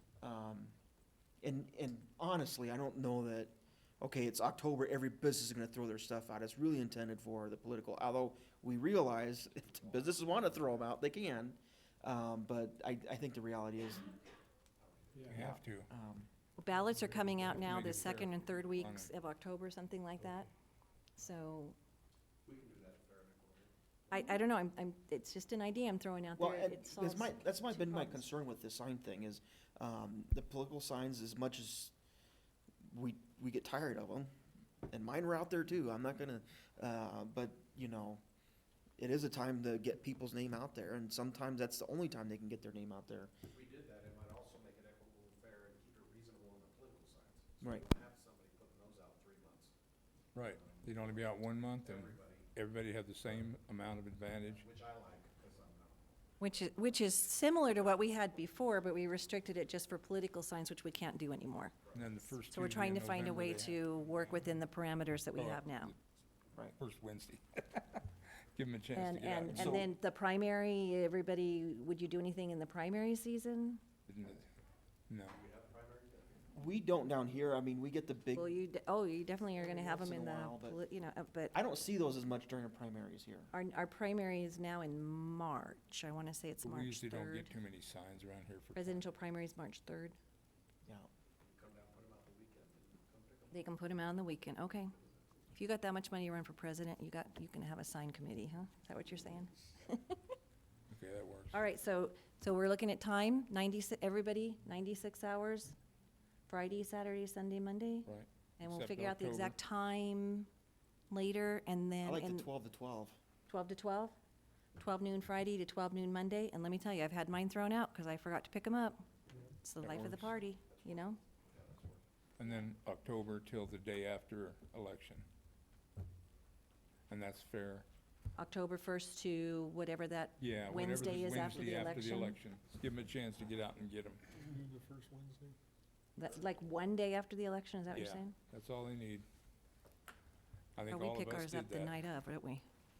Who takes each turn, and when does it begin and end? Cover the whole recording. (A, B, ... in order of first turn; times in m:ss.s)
0:00.2-0:00.7 A
0:01.4-0:14.1 A
0:15.3-0:15.9 B
0:15.3-0:16.3 A
0:16.6-0:20.5 C
0:17.4-0:19.1 B
0:21.2-0:21.8 C
0:22.5-0:23.7 D
0:24.1-0:28.2 C
0:26.4-0:31.9 A
0:32.8-0:34.3 A
0:34.9-0:38.2 A
0:39.0-0:43.3 A
0:43.5-0:49.7 D
0:47.6-0:47.9 A
0:50.3-0:54.6 B
0:51.9-0:52.5 D
0:54.6-0:56.0 D
0:56.4-1:01.7 C
1:01.9-1:03.8 B
1:02.4-1:05.9 C
1:05.3-1:05.9 B
1:06.8-1:09.8 B
1:08.9-1:13.8 C
1:09.5-1:09.9 A
1:14.1-1:14.4 B
1:15.1-1:15.4 B
1:15.4-1:16.4 D
1:16.5-1:18.5 A
1:18.4-1:21.6 C
1:19.6-1:20.8 A
1:21.5-1:23.5 A
1:23.5-1:27.5 C
1:26.6-1:29.0 B
1:28.7-1:30.2 C
1:31.5-1:33.5 D
1:33.5-1:34.9 C
1:35.5-1:40.2 C
1:40.9-1:41.6 B
1:41.5-1:45.7 C
1:46.5-1:50.5 C
1:48.0-1:49.5 B
1:51.1-1:52.5 C
1:52.0-1:53.2 A
1:53.5-1:54.1 C
1:54.8-1:59.0 C
1:59.6-2:01.2 C
1:59.8-2:00.4 A
2:01.5-2:02.0 D
2:02.4-2:05.2 B
2:07.1-2:07.8 B
2:08.4-2:12.4 C
2:10.4-2:14.2 B
2:16.2-2:18.3 C
2:17.9-2:19.2 B
2:20.8-2:22.0 B
2:20.9-2:22.6 C